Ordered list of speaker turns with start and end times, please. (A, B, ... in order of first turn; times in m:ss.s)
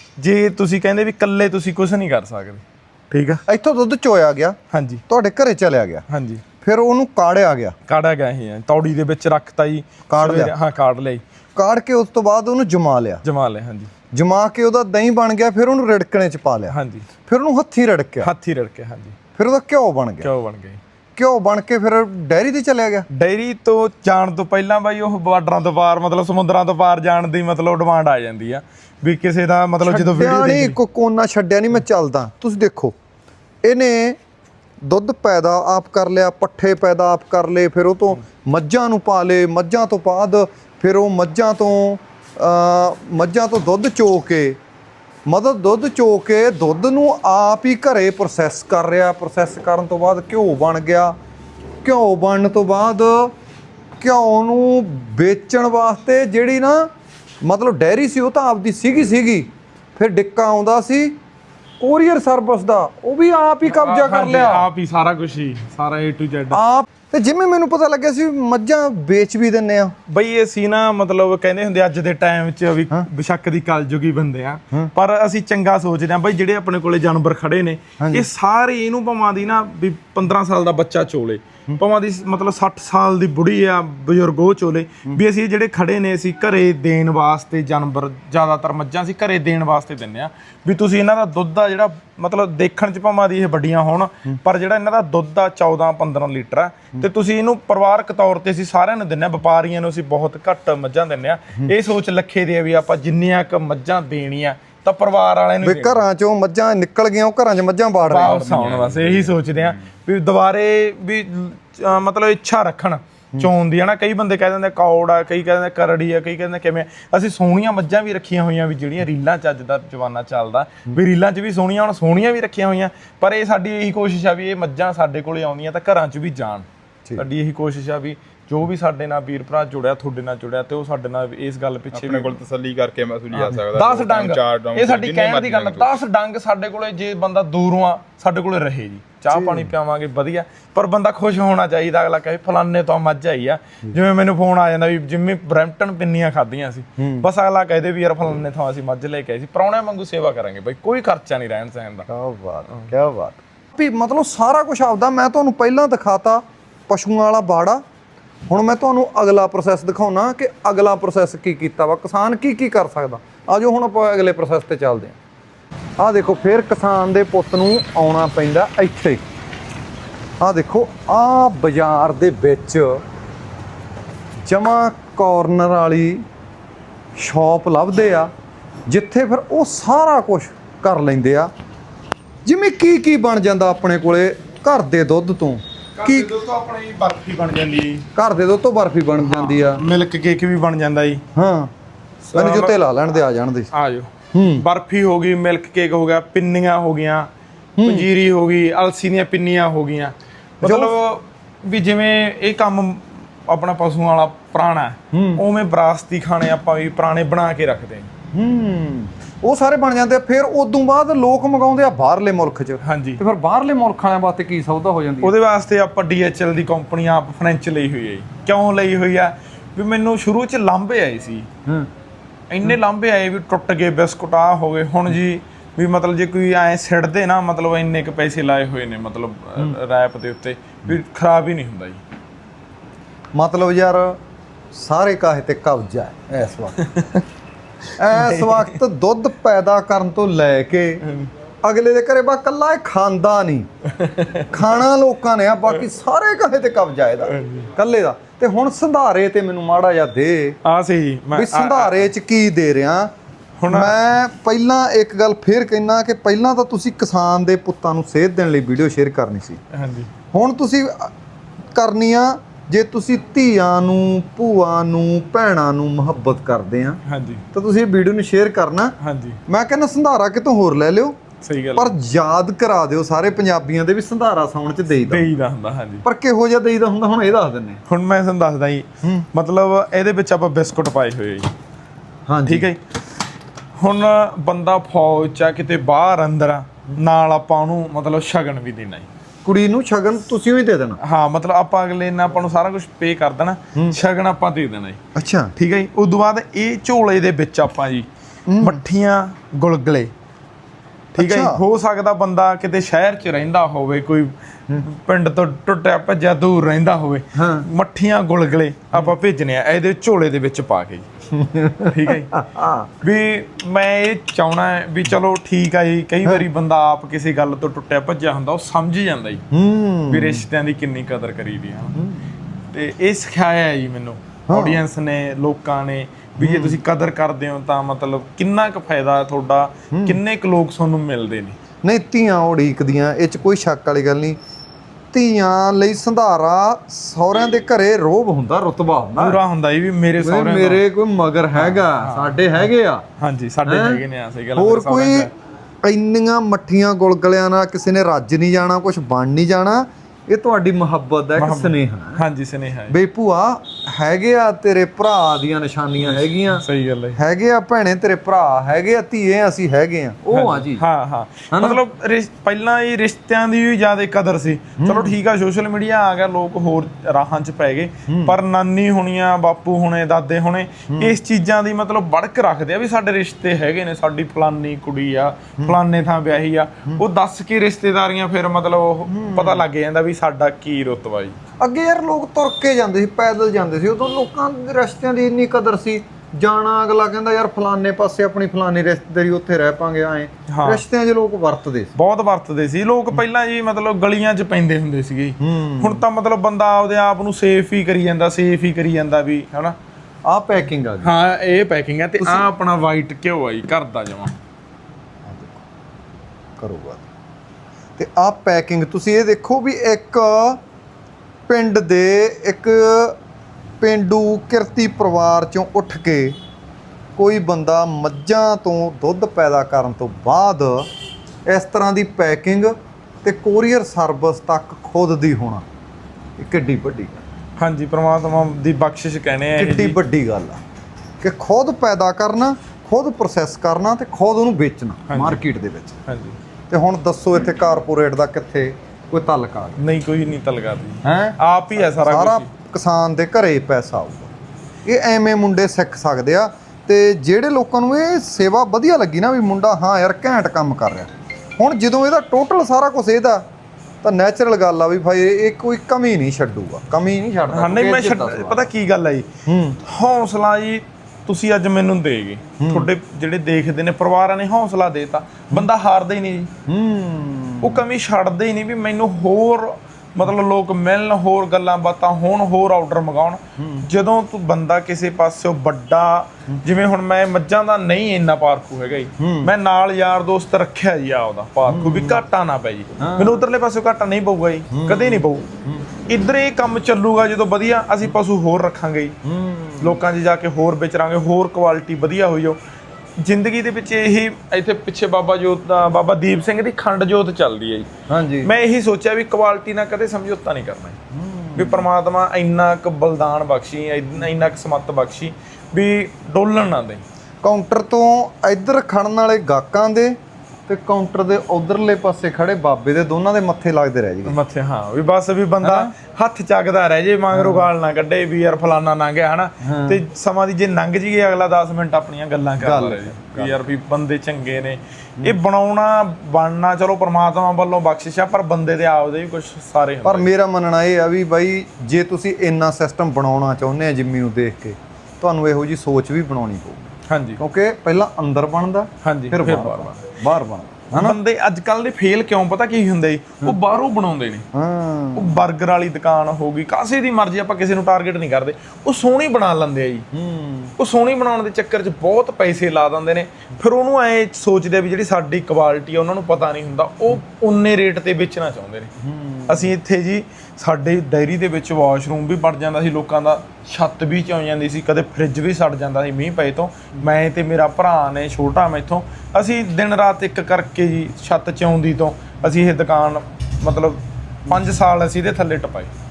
0:00.2-0:03.4 A
0:03.5-0:04.6 B
0:04.7-0:05.0 A
0:05.1-0:06.0 B
0:06.1-0:06.4 A
0:06.6-0:07.8 B
0:07.9-0:11.2 A
0:10.1-0:10.5 B
0:11.6-0:13.2 B
0:13.2-0:13.9 A
0:14.1-0:16.8 B
0:16.7-0:17.1 A
0:17.3-0:18.3 B
0:18.2-0:19.2 A
0:19.4-0:20.3 B
0:20.2-0:20.8 A
0:21.2-0:23.1 B
0:23.1-0:30.8 A
0:29.8-0:33.0 B
0:33.6-0:34.2 B
0:34.8-0:44.6 B
0:45.3-0:51.2 B
0:51.8-0:53.3 B
0:54.0-0:56.9 B
0:57.4-1:01.2 B
1:01.8-1:04.7 B
1:03.6-1:06.6 A
1:06.5-1:10.0 B
1:10.1-1:46.0 A
1:18.0-1:18.3 B
1:45.6-1:48.5 B
1:48.1-2:06.7 A
2:07.2-2:12.4 A
2:11.9-2:15.9 C
2:13.3-2:32.1 A
2:19.3-2:19.7 B
2:27.0-2:27.3 B
2:32.1-2:37.8 B
2:38.5-2:45.2 B
2:46.0-2:49.2 B
2:50.4-2:53.0 B
2:54.5-2:56.2 B
2:57.2-2:58.3 B
2:58.9-3:01.5 B
3:02.4-3:06.3 B
3:06.0-3:08.1 A
3:08.2-3:09.8 B
3:09.2-3:11.2 A
3:11.4-3:11.7 B
3:12.2-3:12.8 A
3:12.4-3:13.7 B
3:13.7-3:17.3 A
3:14.3-3:14.7 B
3:17.8-3:18.1 B
3:17.8-3:28.1 A
3:20.6-3:20.9 B
3:25.1-3:25.4 B
3:28.3-3:35.3 B
3:32.8-3:33.2 A
3:35.2-3:41.5 A
3:42.5-3:52.0 A
3:53.4-3:54.2 B
3:54.7-3:56.8 B
3:56.8-3:57.2 A
3:58.0-4:01.0 B
3:58.2-3:58.8 A
4:01.0-4:01.3 A
4:01.6-4:03.7 B
4:03.9-4:04.8 A
4:04.5-4:10.6 B
4:07.3-4:07.7 A
4:10.6-4:12.1 A
4:11.3-4:13.1 B
4:13.6-4:14.0 A
4:13.7-4:19.6 B
4:19.7-4:20.1 A
4:20.3-4:21.1 B
4:21.8-4:27.0 B
4:27.0-4:27.4 A
4:27.5-4:28.9 B
4:29.0-4:29.4 A
4:29.5-4:31.2 B
4:31.4-4:31.9 A
4:31.8-4:35.4 B
4:35.1-4:36.0 A
4:36.0-4:37.8 B
4:37.9-4:41.5 A
4:42.3-4:42.7 B
4:42.4-4:42.8 A
4:43.8-4:49.1 A
4:49.4-4:51.0 B
4:51.0-4:55.0 A
4:55.2-4:55.5 B
4:55.6-4:58.1 A
4:58.5-4:58.8 B
4:58.6-5:00.1 A
5:01.2-5:11.1 A
5:01.2-5:01.6 B
5:07.4-5:07.7 B
5:11.3-5:12.9 B
5:11.9-5:12.3 A
5:13.0-5:19.4 A
5:19.5-5:20.4 B
5:20.1-5:22.0 A
5:22.0-5:22.3 B
5:22.7-5:31.6 A
5:24.5-5:24.8 B
5:26.4-5:26.8 B
5:29.9-5:30.2 B
5:31.8-5:34.4 B
5:35.1-5:39.4 B
5:39.2-5:40.8 A
5:40.2-5:43.0 B
5:41.5-5:42.6 A
5:43.2-5:45.3 A
5:43.7-5:44.0 B
5:44.6-5:45.3 B
5:45.8-5:52.2 B
5:51.4-5:53.0 A
5:52.9-5:56.6 B
5:56.0-5:57.2 A
5:57.2-6:00.8 B
6:00.3-6:21.4 A
6:01.5-6:01.8 B
6:04.8-6:05.1 B
6:08.1-6:08.4 B
6:10.9-6:11.2 B
6:19.1-6:19.6 B
6:21.6-6:31.9 B
6:30.5-6:30.8 A
6:32.0-6:39.8 A
6:35.4-6:36.0 B
6:40.3-6:41.1 B
6:41.0-6:44.4 A
6:42.2-6:42.4 B
6:45.2-6:45.6 B
6:46.6-6:47.0 B
6:48.0-6:50.6 B
6:51.5-6:53.2 B
6:53.8-6:56.4 B
6:57.2-7:00.9 B
7:01.5-7:05.6 B
7:06.4-7:07.2 B
7:07.6-7:10.0 A
7:09.6-7:10.6 B
7:11.2-7:16.0 B
7:15.1-7:15.4 A
7:16.1-7:16.4 A
7:16.7-7:19.8 B
7:19.8-7:22.5 A
7:21.0-7:24.3 B
7:24.9-7:33.4 B
7:34.0-7:38.7 B
7:37.5-7:39.3 A
7:39.5-7:39.8 B
7:39.8-7:46.5 A
7:42.6-7:42.9 B
7:46.7-7:47.8 B
7:47.6-8:05.5 A
7:53.6-7:53.9 B
7:59.2-7:59.5 B
8:01.7-8:02.2 B
8:03.0-8:03.4 B
8:04.7-8:05.9 B
8:06.1-8:09.2 A
8:09.2-8:10.0 B
8:09.8-8:12.6 A
8:13.2-8:17.9 A
8:18.1-8:18.5 B
8:18.4-8:21.0 A
8:21.1-8:21.9 B
8:21.6-8:27.0 A
8:27.4-8:30.2 B
8:30.7-8:34.4 B
8:34.3-8:50.3 A
8:35.6-8:35.9 B
8:37.3-8:37.7 B
8:39.6-8:40.0 B
8:42.6-8:43.7 B
8:50.0-9:01.2 B
8:57.1-8:57.4 A
8:59.0-9:00.0 A
9:00.9-9:04.5 A
9:04.5-9:05.4 B
9:05.2-9:10.1 A
9:10.1-9:10.8 B
9:10.8-9:18.9 A
9:19.0-9:19.7 B
9:19.5-9:35.9 A